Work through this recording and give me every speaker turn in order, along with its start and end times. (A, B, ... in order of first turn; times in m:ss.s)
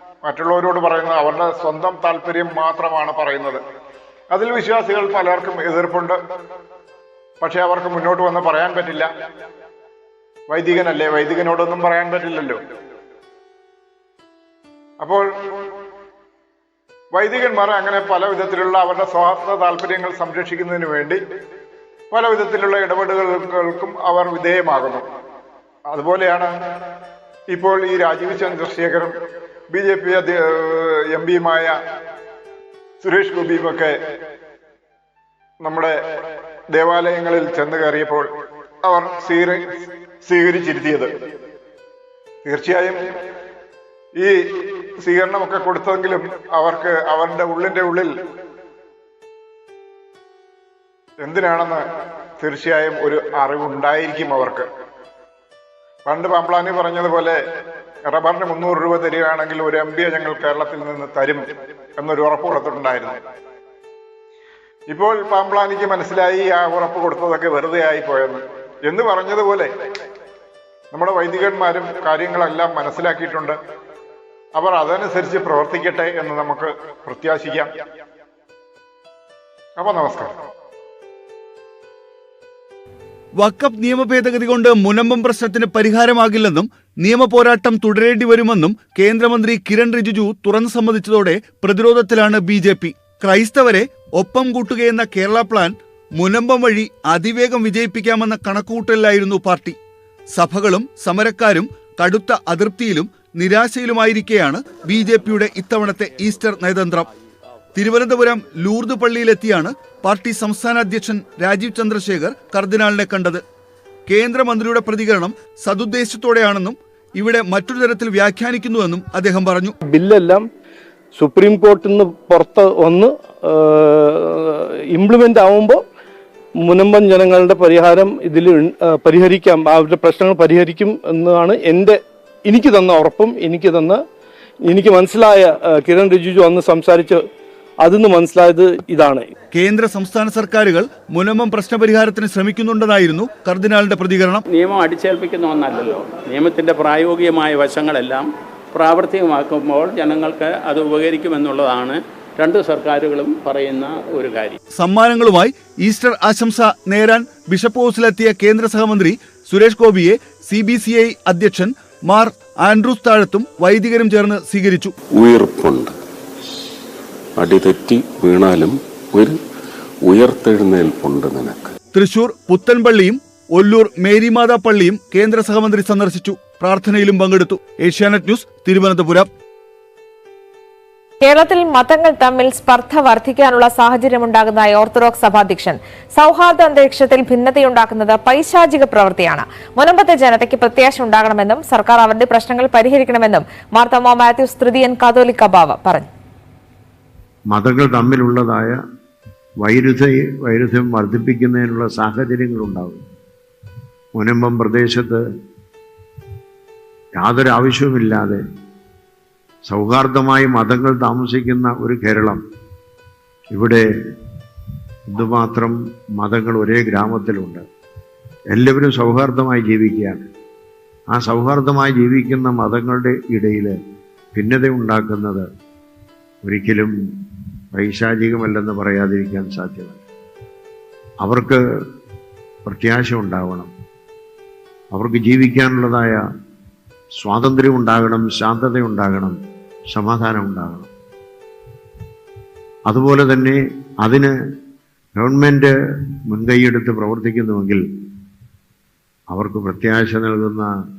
0:00.2-0:03.6 A
0:04.3-0:06.2 A
0:07.4-0:09.1 A
0:10.5-0:12.6 A
0:15.0-0:15.3 A
0:17.1-0:21.2 A
0:22.1-0:25.0 A
0:25.9-0:26.5 A
0:27.5-0:29.1 A
0:29.7-0:31.8 A
0:33.0-0:34.0 A
0:35.6-0:36.0 A
0:36.7-0:38.3 A
0:38.8-0:39.6 A
0:40.2-0:41.1 A
0:42.4-0:43.0 A
0:44.2-0:48.1 A
0:51.2-0:51.8 A
0:52.4-0:54.7 A
0:56.1-0:57.4 A
0:58.1-1:01.4 A
1:02.0-1:03.2 A
1:04.9-1:09.7 A
1:10.9-1:13.6 A
1:14.6-1:17.7 A
1:19.8-1:20.3 A
1:23.4-1:39.8 B
1:40.3-1:47.1 B
1:47.8-1:53.4 B
1:54.1-1:59.8 B
1:59.8-2:00.4 C
2:01.2-2:05.8 C
2:06.6-2:14.0 C
2:14.7-2:17.2 C
2:17.8-2:19.3 C
2:19.5-2:24.4 B
2:24.5-2:34.6 D
2:34.8-2:44.9 B
2:45.1-2:45.9 E
2:47.4-2:49.4 E
2:50.1-2:51.8 E
2:52.0-2:59.3 B
3:01.2-3:16.1 F
3:17.5-3:18.8 G
3:19.6-3:23.0 G
3:24.2-3:25.2 G
3:27.2-3:28.4 G
3:29.7-3:32.4 G
3:33.5-3:33.8 G
3:35.1-3:37.6 G
3:38.5-3:40.2 G
3:41.1-3:43.8 G
3:44.3-3:45.5 G
3:46.4-3:46.9 G
3:47.7-3:50.0 G
3:51.2-3:51.6 G
3:52.6-3:53.7 G
3:54.9-3:56.2 G
3:57.2-3:59.4 G
3:59.9-4:00.9 G
4:02.9-4:04.3 G
4:05.2-4:07.8 G
4:09.3-4:10.7 G